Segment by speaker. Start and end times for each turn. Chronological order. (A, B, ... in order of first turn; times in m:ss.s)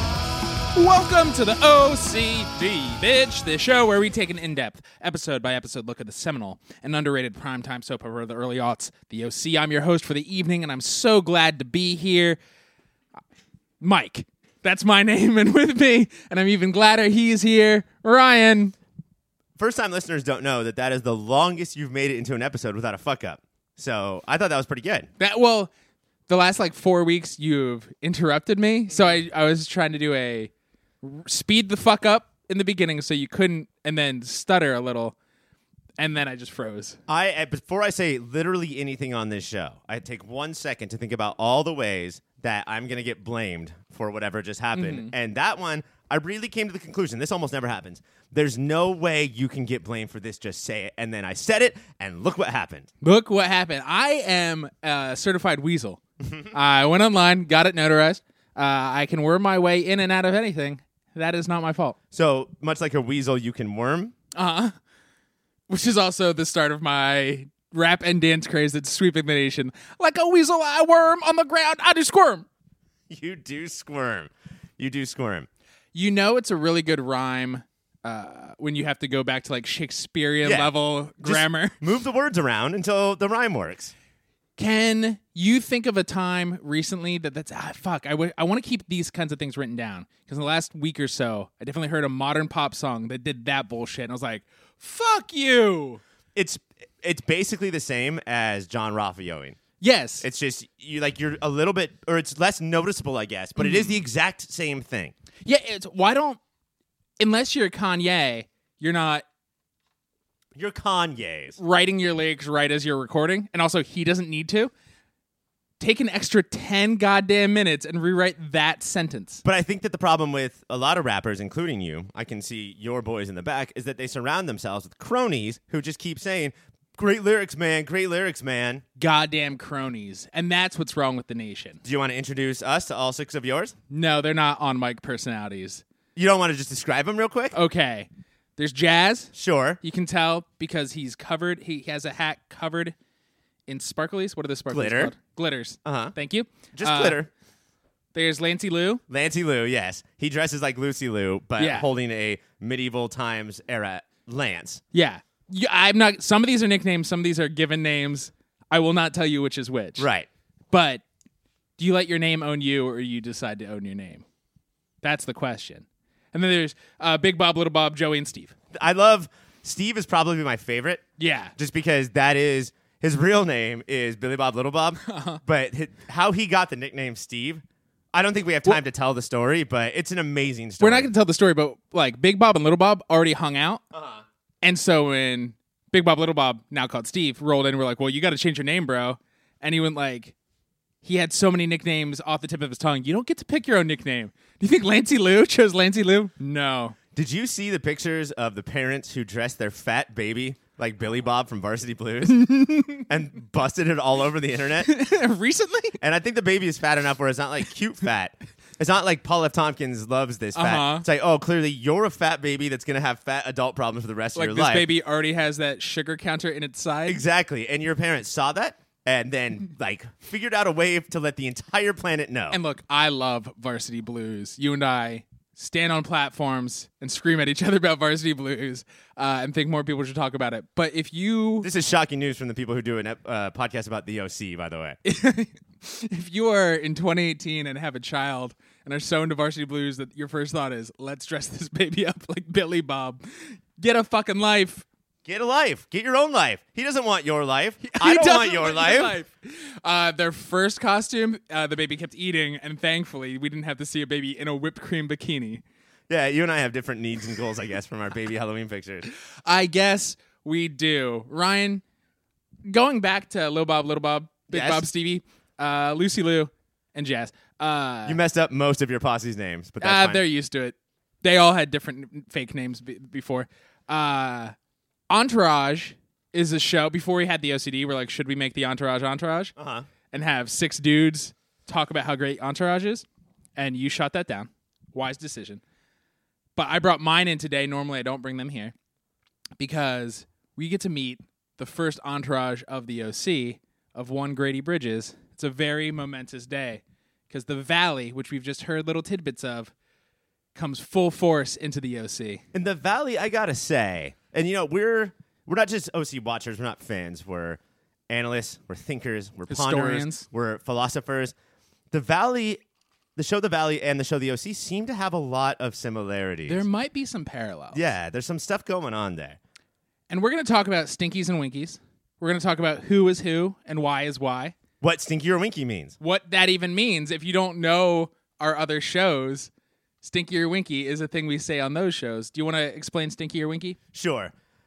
0:00.8-0:12.4 A
0:13.8-0:18.8 A
0:19.6-0:25.1 B
0:25.2-0:25.7 A
0:26.3-0:30.5 A
0:31.0-0:35.2 A
0:36.0-0:37.0 A
0:37.1-0:52.9 B
0:44.8-0:45.1 A
0:53.0-1:02.0 A
1:02.1-1:04.1 B
1:04.3-1:04.8 A
1:05.7-1:12.5 A
1:13.1-1:15.5 B
1:15.9-1:21.8 A
1:20.4-1:23.9 B
1:24.6-1:36.0 A
1:36.4-1:39.6 B
1:39.8-1:40.3 A
1:40.2-1:45.1 B
1:43.6-1:44.0 A
1:45.4-1:46.4 A
1:47.2-1:49.2 A
1:50.6-1:51.6 B
1:51.6-1:54.7 A
1:55.8-1:59.4 A
1:59.4-2:08.8 B
2:09.0-2:11.8 A
2:11.8-2:13.8 B
2:13.9-2:15.8 A
2:16.2-2:17.6 B
2:17.5-2:23.0 A
2:19.3-2:19.8 B
2:23.7-2:27.2 A
2:24.7-2:25.1 B
2:25.8-2:26.2 B
2:26.7-2:27.3 B
2:28.1-2:29.0 A
2:29.1-2:34.8 B
2:31.6-2:31.9 A
2:34.9-2:40.1 A
2:40.0-2:40.3 B
2:40.7-2:41.0 A
2:41.8-2:44.2 A
2:45.0-2:48.6 A
2:48.7-2:51.0 B
2:51.2-2:51.5 A
2:51.6-3:01.1 B
2:55.0-2:55.4 A
3:00.8-3:03.8 A
3:03.9-3:04.2 B
3:04.6-3:10.4 A
3:11.0-3:17.0 A
3:17.1-3:24.9 B
3:22.3-3:23.0 A
3:24.8-3:26.0 A
3:26.0-3:34.9 B
3:30.6-3:31.1 A
3:34.4-3:37.2 A
3:37.1-3:42.6 B
3:42.5-3:51.7 A
3:51.6-3:55.0 B
3:55.0-4:04.9 A
4:05.2-4:09.2 B
4:07.8-4:15.6 A
4:16.1-4:19.1 B
4:19.5-4:21.8 A
4:22.7-4:28.2 A
4:24.5-4:24.9 B
4:28.1-4:30.2 B
4:29.8-4:34.6 A
4:35.1-4:39.5 A
4:39.6-4:39.9 B
4:40.1-4:43.0 A
4:43.6-4:45.6 A
4:46.6-4:48.7 A
4:49.6-4:59.7 A
5:00.6-5:02.4 A
5:02.5-5:11.3 B
5:09.5-5:10.3 A
5:11.9-5:12.6 B
5:13.2-5:16.6 B
5:16.5-5:17.8 A
5:17.7-5:19.4 B
5:20.1-5:24.6 A
5:24.8-5:26.0 B
5:26.0-5:29.5 A
5:30.0-5:33.8 A
5:33.9-5:34.3 B